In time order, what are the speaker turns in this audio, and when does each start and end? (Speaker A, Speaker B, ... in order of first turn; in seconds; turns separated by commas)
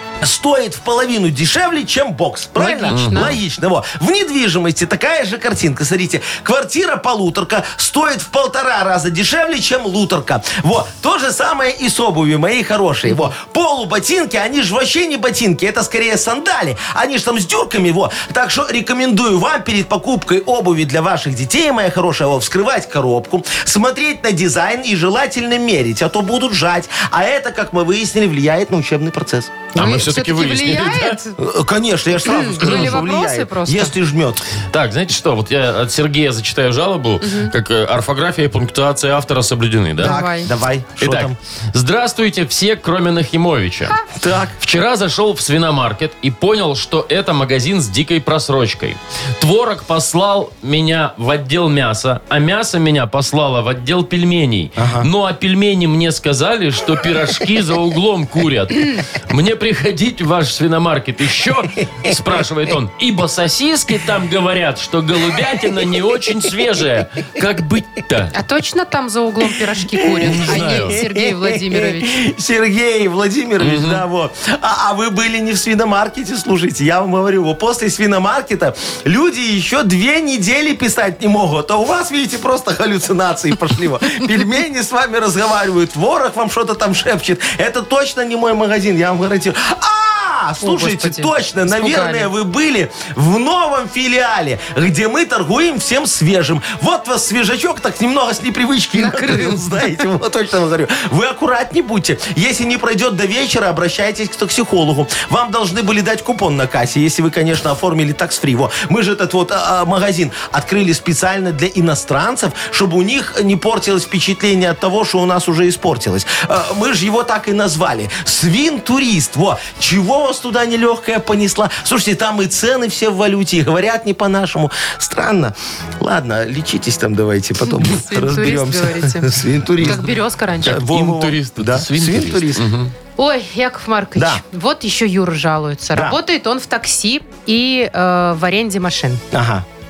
Speaker A: 0.2-29.7, Speaker B: 2.5-3.4, Speaker C: 2.9-3.3, Speaker B: 13.1-13.3, Speaker B: 29.7-31.4, Speaker C: 29.8-31.2, Speaker A: 31.4-34.5, Speaker B: 32.2-33.9, Speaker C: 32.6-33.0, Speaker C: 34.7-40.2, Speaker B: 37.2-37.5, Speaker A: 40.0-41.4, Speaker B: 40.0-40.5, Speaker C: 41.0-43.9, Speaker A: 44.1-44.5, Speaker C: 44.6-68.3, Speaker A: 54.8-55.1, Speaker B: 68.3-72.2, Speaker A: 70.0-130.1, Speaker C: 70.2-71.0, Speaker C: 73.6-74.0, Speaker B: 90.6-92.3, Speaker B: 98.9-99.6, Speaker B: 127.6-129.3, Speaker B: 129.8-130.8, Speaker A: 130.6-132.6, Speaker C: 130.6-132.9, Speaker B: 133.2-139.2, Speaker A: 139.3-139.6